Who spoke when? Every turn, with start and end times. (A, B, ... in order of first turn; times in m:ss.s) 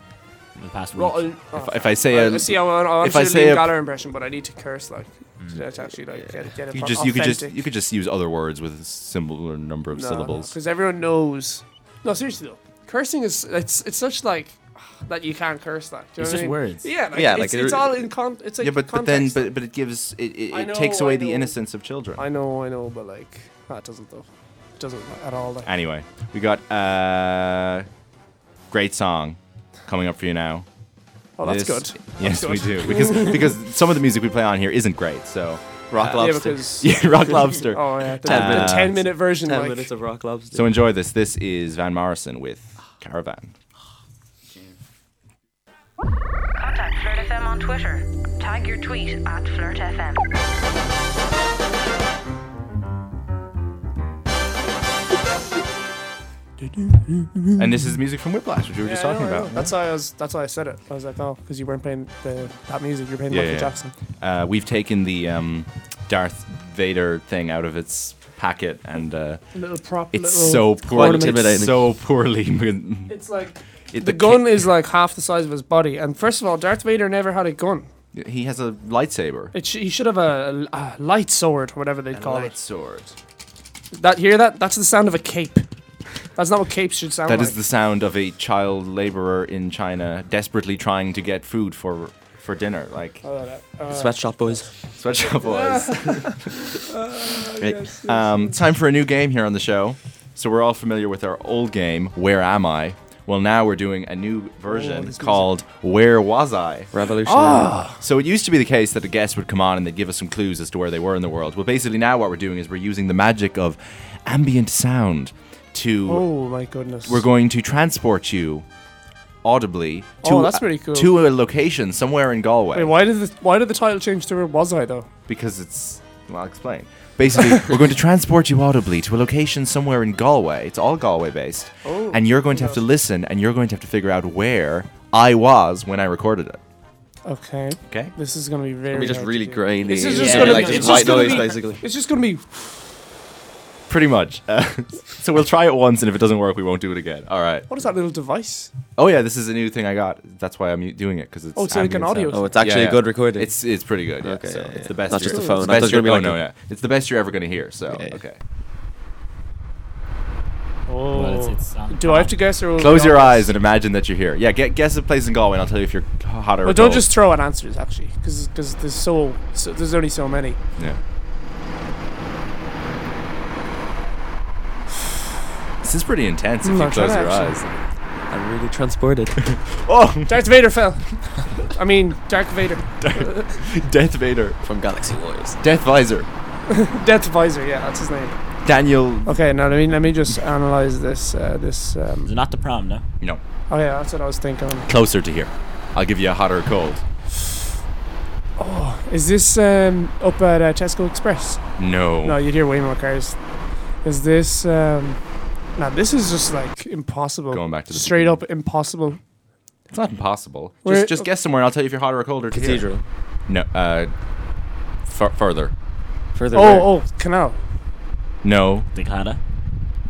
0:00.6-0:01.3 A
0:00.9-0:07.6 B
0:01.5-0:03.7 C
0:06.7-0:10.5 C
0:09.9-0:19.5 B
0:16.2-0:16.9 A
0:17.1-0:18.0 D
0:18.6-0:22.2 C
0:20.5-0:21.6 B
0:22.2-0:25.7 B
0:25.6-0:27.9 C
0:28.7-0:30.6 C
0:31.4-0:33.5 B
0:31.4-0:39.0 C
0:35.9-0:36.7 D
0:36.2-0:39.9 B
0:38.2-0:40.7 D
0:40.5-0:43.5 C
0:46.5-0:50.2 E
0:56.6-0:57.6 B
0:57.6-0:59.7 C
0:58.8-1:03.9 B
1:03.3-1:09.4 C
1:09.5-1:11.5 B
1:10.1-1:13.2 C
1:10.9-1:11.8 D
1:13.1-1:17.9 B
1:13.9-1:14.7 C
1:18.1-1:19.5 C
1:19.5-1:22.6 B
1:22.1-1:23.2 C
1:23.9-1:25.7 B
1:26.3-1:27.6 B
1:27.3-1:33.2 C
1:33.2-1:34.3 B
1:33.9-1:34.7 D
1:34.9-1:36.8 C
1:35.4-1:38.6 B
1:37.6-1:46.9 C
1:44.7-1:45.5 B
1:46.9-1:47.8 D
1:47.2-1:48.0 B
1:48.0-1:56.2 C
1:56.0-1:57.2 B
1:57.0-1:58.6 C
1:59.4-2:02.9 C
2:00.2-2:01.2 B
2:02.7-2:05.1 B
2:05.3-2:16.6 C
2:11.8-2:12.8 B
2:17.2-2:22.8 B
2:17.9-2:18.1 C
2:18.9-2:21.8 D
2:20.1-2:21.5 A
2:20.2-2:21.4 C
2:23.9-2:27.7 C
2:27.7-2:28.7 B
2:29.0-2:38.4 C
2:31.6-2:32.6 B
2:32.3-2:33.6 D
2:34.2-2:36.4 D
2:35.2-2:35.8 B
2:37.9-2:38.2 D
2:40.9-2:43.5 B
2:41.1-2:42.4 A
2:42.8-2:47.1 C
2:46.6-2:50.6 B
2:55.8-2:57.7 C
2:56.6-2:57.7 B
2:58.3-2:59.4 D
2:59.4-3:00.5 C
3:00.3-3:03.6 B
3:03.0-3:04.6 C
3:04.6-3:05.6 D
3:05.6-3:06.3 C
3:06.7-3:08.4 B
3:08.6-3:09.4 C
3:09.2-3:12.3 B
3:12.2-3:13.0 A
3:13.7-3:14.9 B
3:14.9-3:17.0 C
3:18.6-3:21.7 B
3:21.8-3:22.4 C
3:22.2-3:23.4 B
3:24.0-3:25.2 B
3:25.8-3:29.2 B
3:27.5-3:28.4 C
3:29.9-3:32.9 C
3:30.8-3:31.3 B
3:32.5-3:33.0 D
3:33.5-3:34.1 C
3:35.0-3:35.7 C
3:36.3-3:36.9 D
3:36.5-3:37.6 B
3:38.4-3:38.9 C
3:38.9-3:39.4 A